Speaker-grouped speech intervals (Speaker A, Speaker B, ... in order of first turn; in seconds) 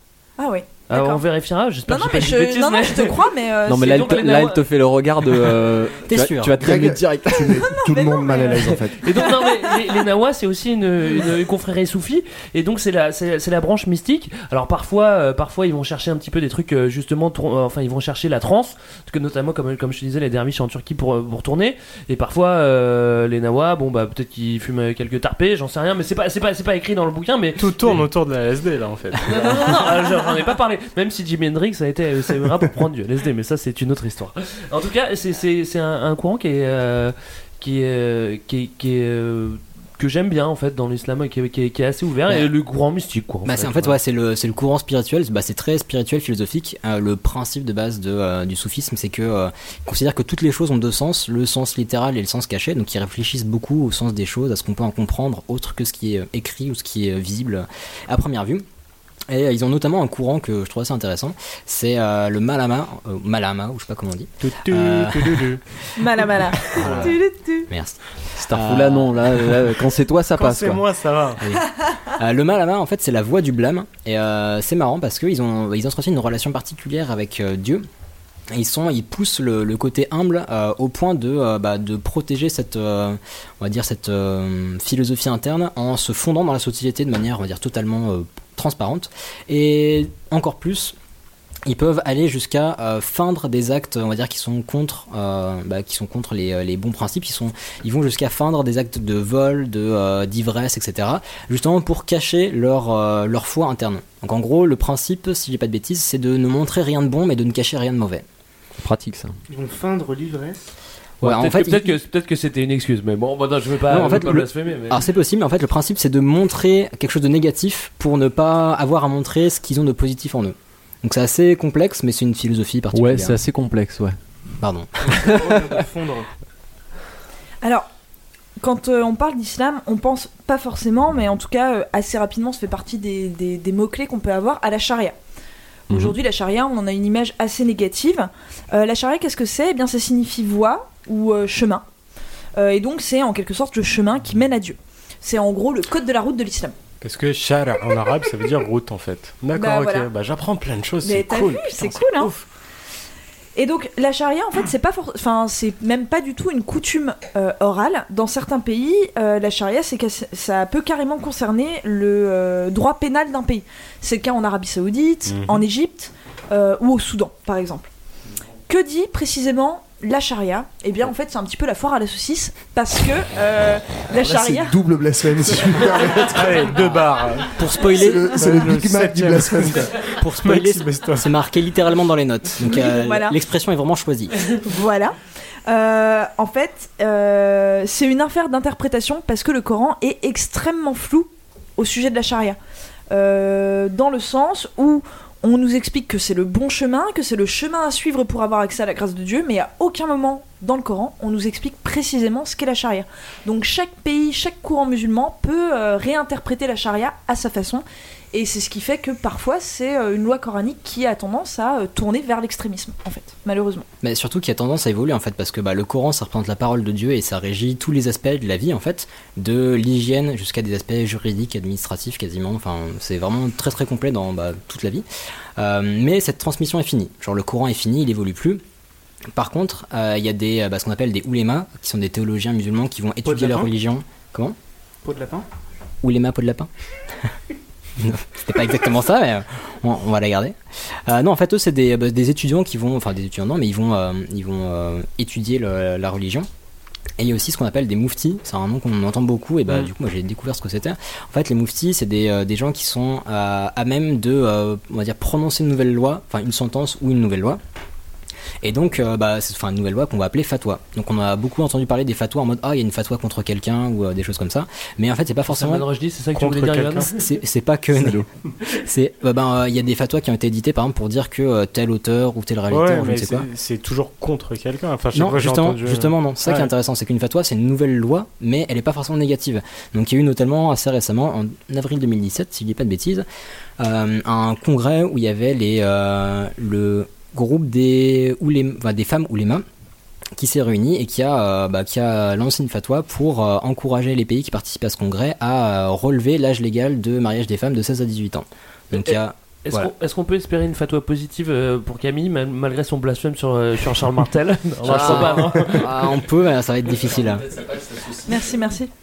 Speaker A: 0.4-1.2, 1.9-4.0, 7.6-9.8, 66.0-67.7, 128.6-135.1, 135.9-141.8, 142.6-146.7, 149.5-150.1, 151.0-152.3, 153.6-167.9, 168.7-174.8, 182.6-183.3, 184.6-192.6, 193.1-213.8, 308.2-308.9
Speaker B: 0.9-4.6, 9.0-28.0, 29.2-44.0, 111.2-115.0, 265.5-267.2, 299.0-306.1
Speaker C: 3.7-7.6, 68.4-70.8, 108.8-109.3, 122.9-124.2
Speaker D: 6.0-6.8, 43.4-58.6, 59.3-65.6, 66.6-67.1, 67.7-69.6, 71.4-77.8, 78.5-90.9, 91.7-108.2, 111.2-112.0, 113.9-123.4, 124.6-125.2, 177.6-178.3, 180.2-184.3, 214.0-225.0, 225.6-228.6, 229.3-234.6, 236.0-236.7, 238.0-240.6, 241.1-246.5, 247.2-257.6, 258.6-265.9, 267.2-273.5, 275.1-283.2, 283.8-289.6, 290.4-299.9, 304.8-307.5
Speaker E: 6.6-9.0, 174.2-176.8, 177.9-180.0
Speaker F: 27.6-29.7, 64.4-65.6, 66.7-67.1, 70.3-71.4, 147.0-152.4, 165.3-165.6, 176.3-179.9, 180.4-181.3, 266.3-267.1, 272.7-276.7
Speaker G: 109.5-110.7, 125.0-126.3, 233.2-233.7, 235.0-235.4